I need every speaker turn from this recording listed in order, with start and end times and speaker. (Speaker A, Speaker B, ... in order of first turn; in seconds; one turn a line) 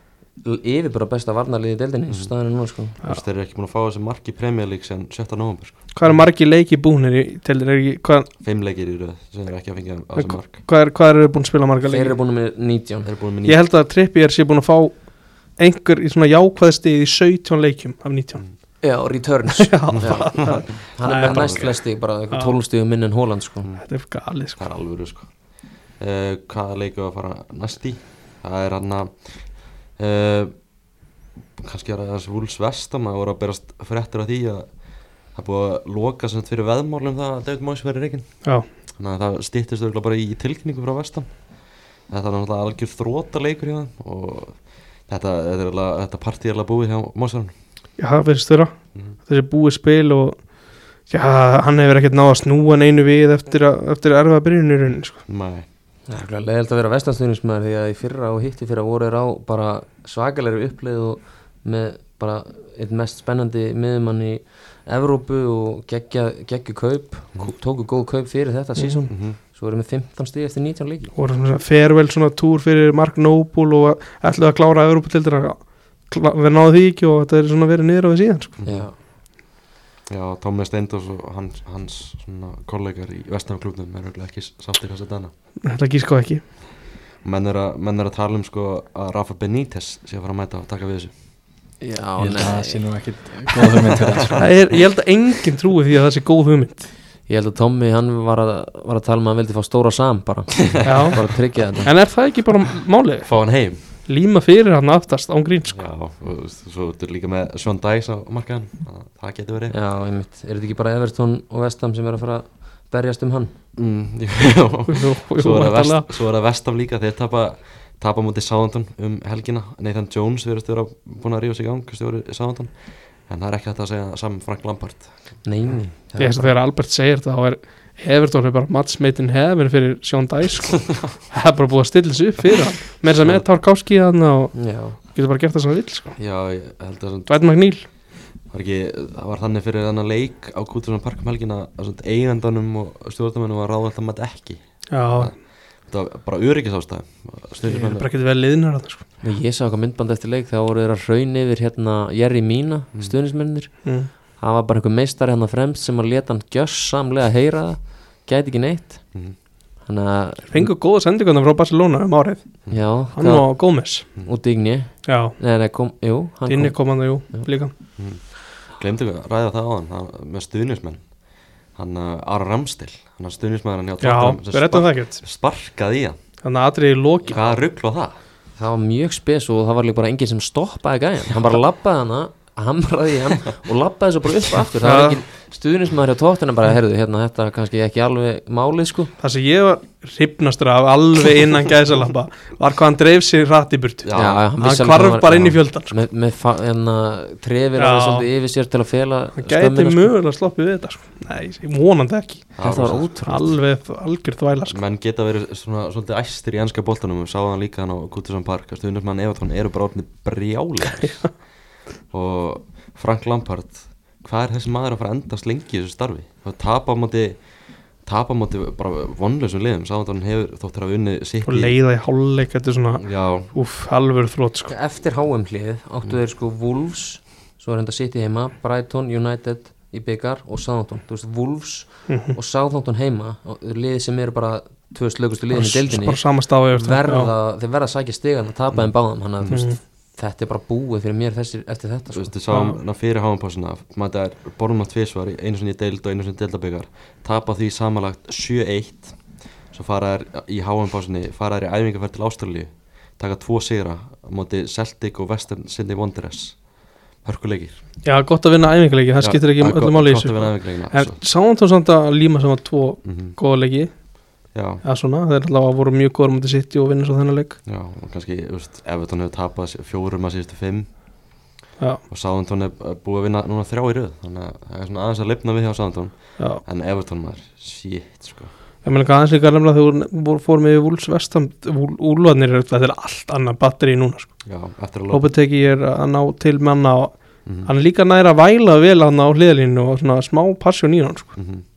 Speaker A: 0.4-3.0
Speaker B: 2.9-6.2
Speaker C: 5.9-8.3
Speaker B: 8.4-10.7
Speaker C: 10.2-12.2
Speaker A: 11.8-13.1
Speaker B: 13.1-13.7
Speaker C: 13.4-18.4
Speaker A: 18.8-23.7
Speaker C: 19.6-21.8
Speaker B: 19.9-21.8
Speaker C: 22.3-22.6
Speaker C: 23.8-24.6
Speaker B: 24.5-30.7
Speaker B: 31.6-47.5
Speaker C: 48.0-55.2
Speaker B: 55.3-55.6
Speaker A: 56.1-71.1
Speaker C: 68.8-69.0
Speaker B: 69.1-69.4
Speaker C: 71.2-78.6
Speaker B: 78.6-78.9
Speaker A: 78.7-79.0
Speaker B: 80.1-85.3
Speaker C: 85.7-86.5
Speaker B: 87.2-91.1
Speaker A: 91.8-92.9
Speaker D: 92.2-94.5
Speaker C: 94.4-96.9
Speaker A: 97.2-102.1
Speaker B: 100.8-101.2
Speaker C: 100.8-105.9
Speaker B: 103.2-103.8
Speaker B: 105.7-109.8
Speaker A: 109.7-113.6
Speaker B: 113.8-125.4
Speaker C: 114.9-116.1
Speaker A: 125.4-126.6
Speaker C: 126.2-136.2
Speaker B: 133.1-133.5
Speaker A: 134.6-135.0
Speaker B: 136.2-137.9
Speaker C: 137.3-137.9
Speaker B: 138.5-148.1
Speaker C: 144.9-145.4
Speaker C: 147.7-149.0
Speaker A: 149.2-159.2
Speaker C: 153.8-154.1
Speaker A: 159.8-160.7
Speaker C: 160.5-164.1
Speaker A: 162.7-167.5
Speaker C: 165.1-165.4
Speaker C: 166.5-167.7
Speaker B: 168.0-176.2
Speaker C: 174.0-175.2
Speaker C: 176.4-177.6
Speaker B: 177.3-178.2
Speaker A: 178.6-189.1
Speaker C: 184.8-185.2
Speaker C: 189.2-196.0
Speaker B: 194.0-194.5
Speaker A: 194.1-200.1
Speaker C: 197.8-198.3
Speaker C: 199.4-204.8
Speaker B: 202.6-203.1
Speaker A: 202.6-203.5
Speaker B: 204.7-221.8
Speaker C: 210.9-211.3
Speaker C: 221.4-224.7
Speaker B: 223.0-223.5
Speaker A: 224.7-242.3
Speaker C: 232.1-232.4
Speaker C: 235.5-237.3
Speaker B: 238.7-239.7
Speaker C: 239.5-239.8
Speaker B: 242.1-257.8
Speaker C: 242.5-242.8
Speaker C: 258.0-267.6
Speaker B: 259.2-261.2
Speaker B: 263.0-263.4
Speaker B: 264.5-264.8
Speaker B: 267.7-271.4
Speaker C: 271.8-272.0
Speaker B: 272.1-278.5
Speaker C: 276.4-276.6
Speaker C: 278.8-291.4
Speaker B: 284.4-285.3
Speaker B: 291.4-291.6